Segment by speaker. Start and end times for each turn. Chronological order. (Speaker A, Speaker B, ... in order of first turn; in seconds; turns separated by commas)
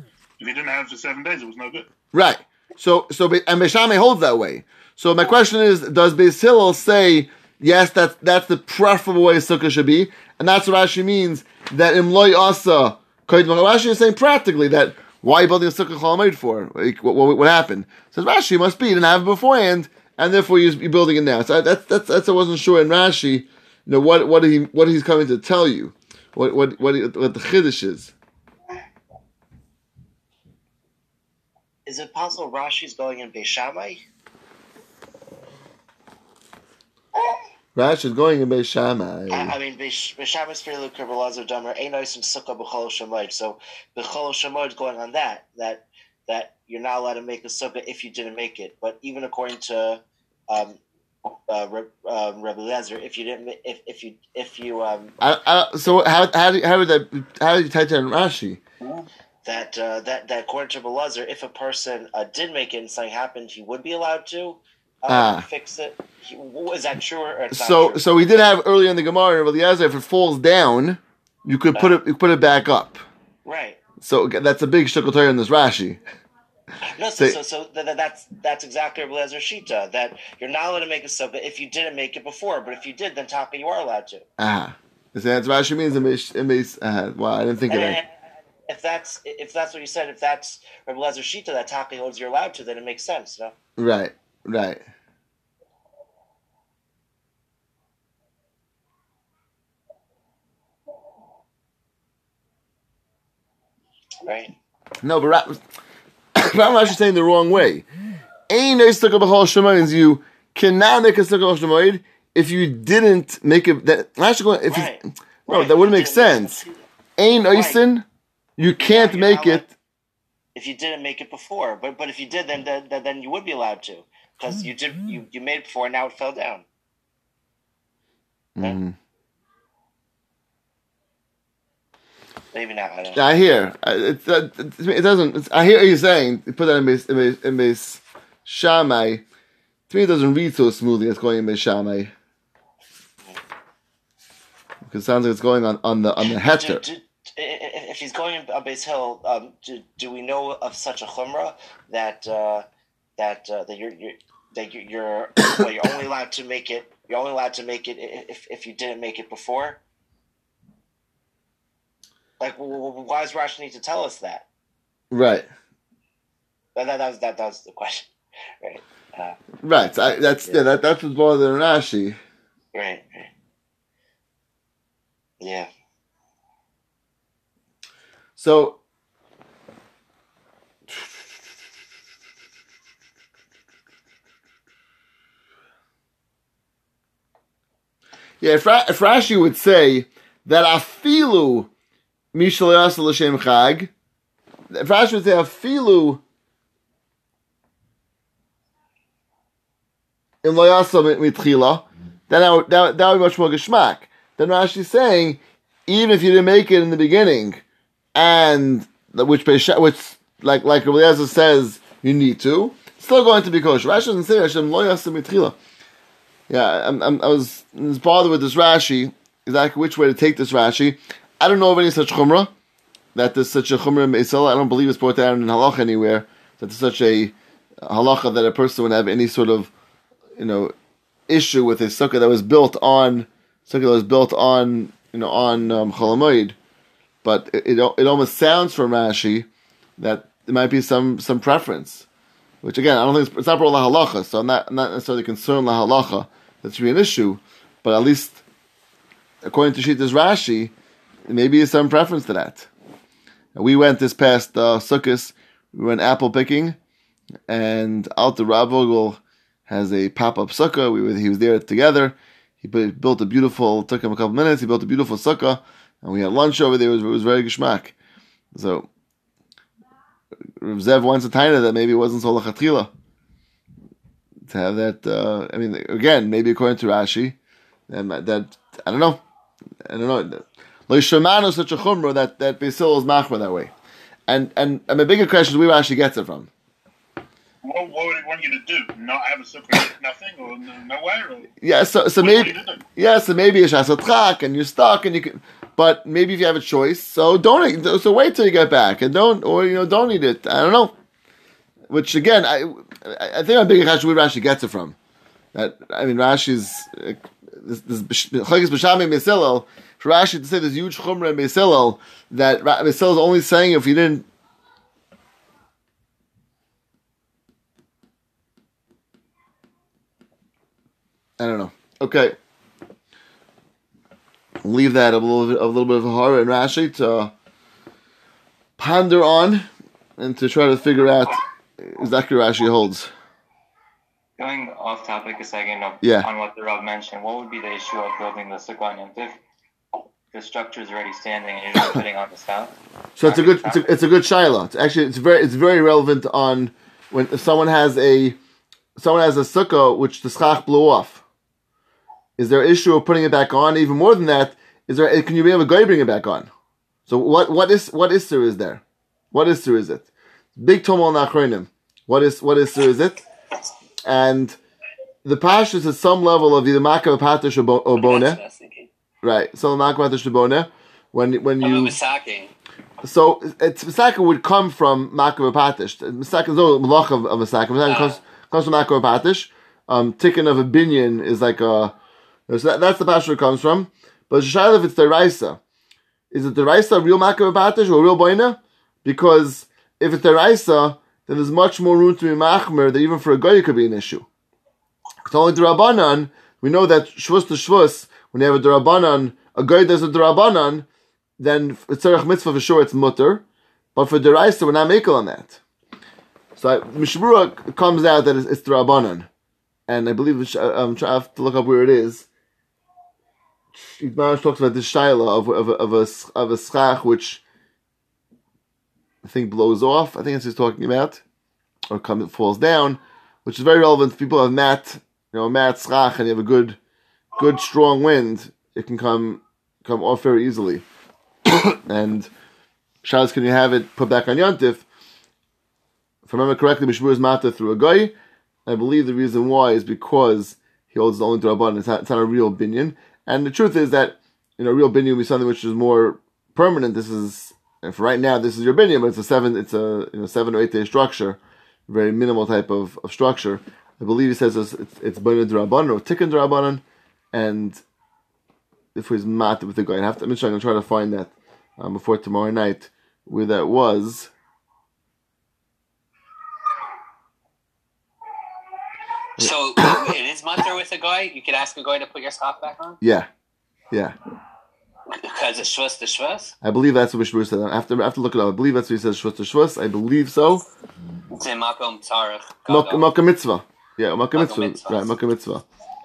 Speaker A: 0.4-1.9, Speaker B: 2.1-28.1, Speaker C: 31.9-34.0, Speaker B: 37.8-39.5, Speaker C: 39.3-50.8, Speaker C: 51.3-55.2, Speaker B: 55.2-58.6, Speaker C: 59.5-68.5, Speaker B: 65.1-65.5, Speaker B: 67.5-73.0, Speaker C: 73.5-73.8, Speaker B: 74.0-76.0, Speaker C: 77.0-84.2, Speaker B: 84.4-88.0, Speaker C: 87.7-93.5, Speaker B: 93.8-94.8, Speaker C: 104.2-104.5, Speaker B: 105.0-105.6, Speaker B: 106.4-107.8, Speaker B: 108.5-114.9, Speaker C: 114.7-116.9, Speaker B: 115.5-116.6, Speaker B: 117.2-118.0, Speaker C: 117.5-117.8, Speaker B: 118.6-119.7, Speaker C: 118.8-119.7, Speaker C: 120.5-126.7, Speaker B: 128.6-129.0, Speaker C: 132.5-133.3, Speaker B: 133.2-139.2, Speaker B: 139.9-142.1, Speaker B: 144.9-146.8, Speaker C: 146.2-152.7, Speaker C: 153.2-159.8, Speaker C: 162.4-164.5, Speaker B: 165.1-165.5, Speaker C: 166.8-168.1, Speaker C: 168.6-169.4, Speaker B: 169.6-172.2, Speaker C: 172.7-173.3, Speaker C: 175.4-175.7, Speaker B: 178.4-178.8, Speaker B: 188.4-191.7, Speaker B: 192.3-193.9, Speaker B: 194.7-196.2, Speaker B: 200.4-207.6, Speaker B: 208.2-215.6, Speaker B: 216.5-222.5, Speaker B: 223.2-229.7, Speaker B: 230.4-230.7, Speaker B: 231.3-236.6, Speaker B: 237.2-239.5, Speaker B: 240.0-242.1, Speaker B: 242.6-248.4, Speaker B: 249.4-250.7, Speaker B: 251.3-252.7, Speaker B: 253.6-256.8, Speaker B: 257.5-267.9, Speaker B: 268.5-268.9, Speaker B: 270.6-272.9, Speaker B: 274.5-277.4, Speaker B: 277.9-279.2, Speaker B: 279.9-283.7, Speaker B: 284.3-286.5, Speaker A: 287.6-291.5, Speaker B: 291.6-300.9, Speaker A: 292.2-292.8, Speaker B: 301.9-305.0, Speaker B: 305.5-314.3, Speaker B: 321.4-322.4, Speaker B: 324.6-327.3, Speaker B: 328.8-329.7, Speaker B: 330.2-333.1, Speaker D: 334.4-339.4, Speaker B: 336.0-336.3, Speaker D: 340.3-343.9, Speaker B: 343.2-348.4, Speaker B: 349.0-351.2, Speaker B: 352.4-356.5, Speaker B: 357.1-363.2, Speaker B: 364.1-364.6, Speaker B: 365.2-368.4, Speaker E: 368.0-368.9, Speaker B: 369.2-372.0, Speaker E: 371.6-372.5, Speaker B: 373.0-381.9, Speaker E: 377.8-378.2, Speaker B: 382.5-385.6, Speaker B: 386.3-394.3, Speaker B: 395.3-400.9, Speaker B: 401.4-403.4, Speaker B: 403.9-405.6, Speaker B: 406.6-409.3, Speaker B: 409.9-412.3, Speaker B: 413.8-417.4, Speaker B: 419.2-421.2, Speaker B: 421.9-426.8, Speaker B: 427.4-430.8, Speaker B: 431.5-432.3, Speaker B: 433.0-434.9, Speaker B: 436.3-438.1, Speaker B: 438.7-457.8, Speaker B: 458.9-464.3, Speaker E: 469.4-473.0, Speaker B: 473.0-473.3, Speaker E: 475.1-476.5, Speaker B: 476.6-480.6, Speaker E: 481.4-483.1, Speaker B: 482.7-485.6, Speaker E: 484.4-485.0